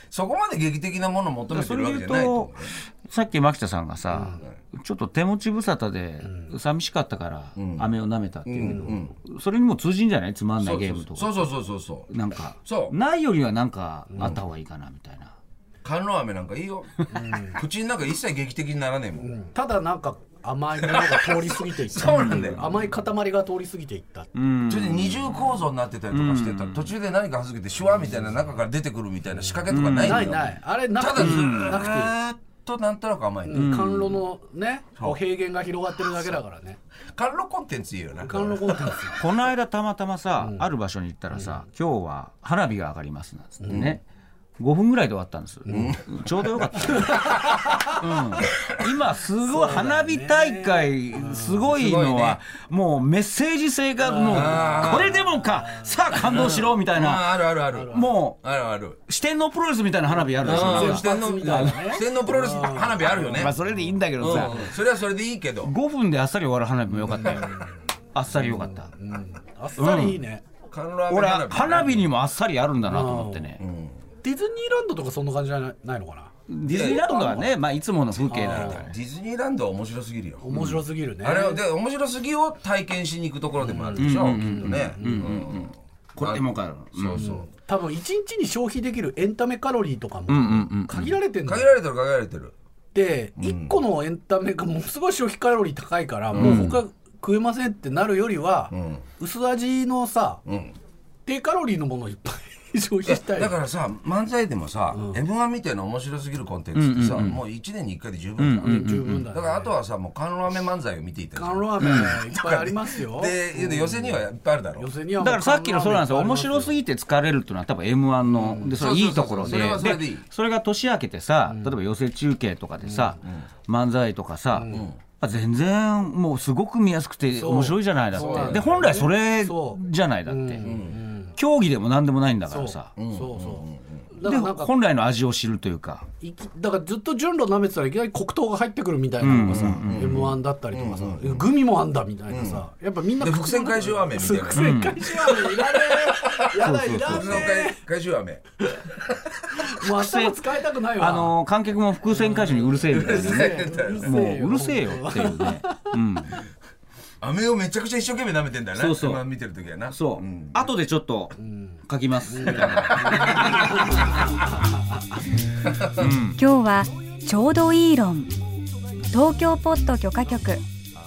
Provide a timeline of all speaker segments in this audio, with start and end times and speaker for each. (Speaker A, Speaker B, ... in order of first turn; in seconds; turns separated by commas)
Speaker A: 0.1-2.8, Speaker B: 1.5-11.5, Speaker C: 4.1-4.4, Speaker A: 7.6-7.9, Speaker A: 8.5-9.1, Speaker A: 10.6-12.1, Speaker B: 12.1-15.3, Speaker A: 12.6-12.9, Speaker C: 14.1-14.4, Speaker A: 14.2-14.4, Speaker A: 15.8-19.3, Speaker C: 17.1-17.6, Speaker C: 19.2-24.3, Speaker A: 20.8-22.9, Speaker B: 24.4-26.9, Speaker A: 24.7-33.8, Speaker C: 29.5-32.1, Speaker B: 29.7-30.5, Speaker B: 31.1-31.9, Speaker C: 33.5-36.8, Speaker B: 33.5-34.2, Speaker A: 36.1-36.4, Speaker A: 37.1-39.1, Speaker C: 38.2-39.2, Speaker B: 39.2-44.0, Speaker C: 40.4-40.6, Speaker C: 41.3-41.6, Speaker C: 43.6-44.0, Speaker A: 43.7-44.0, Speaker B: 44.6-58.4, Speaker A: 45.7-47.6, Speaker C: 45.7-46.0, Speaker C: 47.0-48.0, Speaker C: 49.4-51.7, Speaker A: 51.7-52.4, Speaker C: 54.0-56.2, Speaker A: 54.3-55.1, Speaker A: 56.1-59.0, Speaker B: 59.1-61.8, Speaker C: 60.3-64.5, Speaker A: 60.4-63.5, Speaker B: 63.4-64.7, Speaker A: 64.2-65.7, Speaker B: 65.6-68.9, Speaker C: 67.1-67.7, Speaker C: 68.3-70.4, Speaker B: 69.8-70.2, Speaker A: 70.7-72.1, Speaker B: 71.1-73.6, Speaker C: 72.8-73.5, Speaker A: 73.6-74.0, Speaker C: 74.2-77.5, Speaker B: 76.5-78.9, Speaker A: 76.7-77.1, Speaker A: 78.1-80.6, Speaker C: 78.3-78.9, Speaker C: 80.4-81.6, Speaker B: 80.5-80.8, Speaker A: 81.2-87.5, Speaker C: 83.6-85.3, Speaker B: 84.0-87.2, Speaker C: 87.2-91.7, Speaker B: 90.3-91.1, Speaker A: 91.5-92.5, Speaker C: 92.9-100.4, Speaker A: 93.4-93.8, Speaker A: 96.3-96.8, Speaker B: 96.4-96.8, Speaker A: 98.7-99.1, Speaker A: 100.5-100.8, Speaker C: 101.2-103.6, Speaker A: 103.0-114.9, Speaker C: 104.9-105.2, Speaker B: 106.8-107.4, Speaker B: 108.4-109.3, Speaker C: 108.6-109.8, Speaker C: 111.3-114.2, Speaker B: 111.8-112.1, Speaker C: 114.8-116.8, Speaker B: 115.2-130.7, Speaker C: 118.2-118.8, Speaker A: 118.7-120.2, Speaker C: 121.5-121.8, Speaker C: 122.8-123.2, Speaker A: 123.2-123.5, Speaker C: 124.5-124.9, Speaker A: 124.7-125.0, Speaker C: 127.3-131.4, Speaker A: 128.1-128.8, Speaker A: 130.6-131.0, Speaker B: 131.3-132.9, Speaker C: 132.5-134.7, Speaker A: 133.0-134.1, Speaker B: 134.2-136.1, Speaker C: 136.2-147.8, Speaker B: 139.2-140.3, Speaker A: 139.3-141.5, Speaker A: 142.3-142.6, Speaker A: 143.2-148.4, Speaker B: 144.5-145.0, Speaker B: 146.6-147.5, Speaker C: 149.5-151.4, Speaker B: 149.8-150.4, Speaker B: 150.9-156.4, Speaker C: 152.1-155.9, Speaker A: 152.9-154.2, Speaker A: 157.2-160.7, Speaker B: 158.8-159.2, Speaker B: 159.9-163.7, Speaker C: 161.4-161.8, Speaker C: 162.3-164.8, Speaker A: 162.4-163.9, Speaker A: 165.8-166.1, Speaker B: 166.0-166.4, Speaker D: 166.4-168.4, Speaker D: 169.1-170.6